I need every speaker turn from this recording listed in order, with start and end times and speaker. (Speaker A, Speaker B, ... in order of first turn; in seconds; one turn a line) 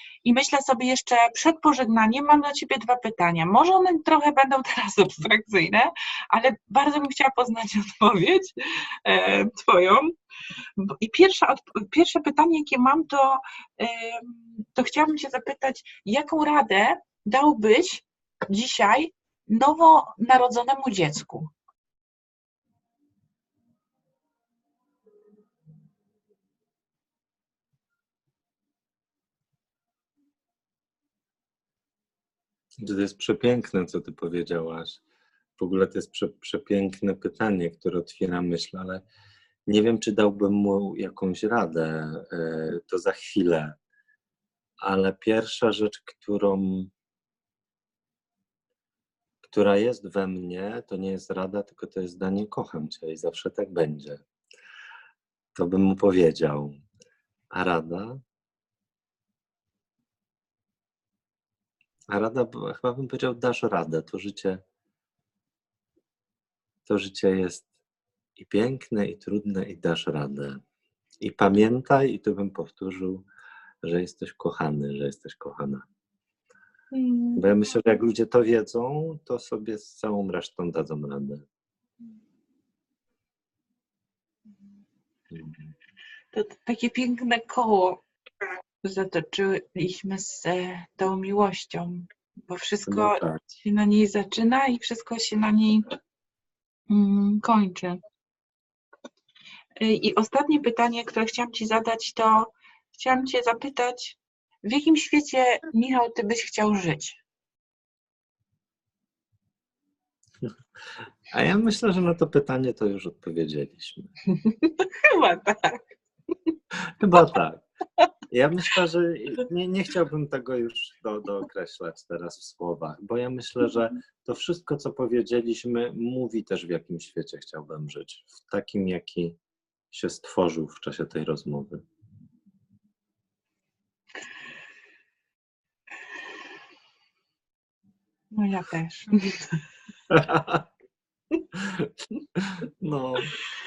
Speaker A: 0.2-8.5
Speaker A: 9.1-10.1
Speaker A: 10.8-21.5
Speaker B: 32.8-35.0
Speaker B: 35.6-39.0
Speaker B: 39.7-43.7
Speaker B: 44.8-46.9
Speaker B: 49.5-54.2
Speaker B: 55.5-56.8
Speaker B: 57.5-58.2
Speaker B: 62.1-64.6
Speaker B: 66.9-67.7
Speaker B: 68.4-70.6
Speaker B: 71.2-73.2
Speaker B: 73.8-75.8
Speaker A: 76.9-77.5
Speaker B: 77.4-81.4
Speaker B: 85.3-85.6
Speaker A: 86.3-88.0
Speaker A: 88.8-95.8
Speaker B: 92.9-93.4
Speaker A: 96.9-98.0
Speaker A: 99.8-107.2
Speaker B: 111.3-114.1
Speaker A: 114.3-116.0
Speaker B: 117.0-117.7
Speaker B: 118.3-129.4
Speaker B: 129.9-131.8
Speaker A: 138.3-139.6
Speaker B: 140.1-140.7
Speaker B: 141.6-143.3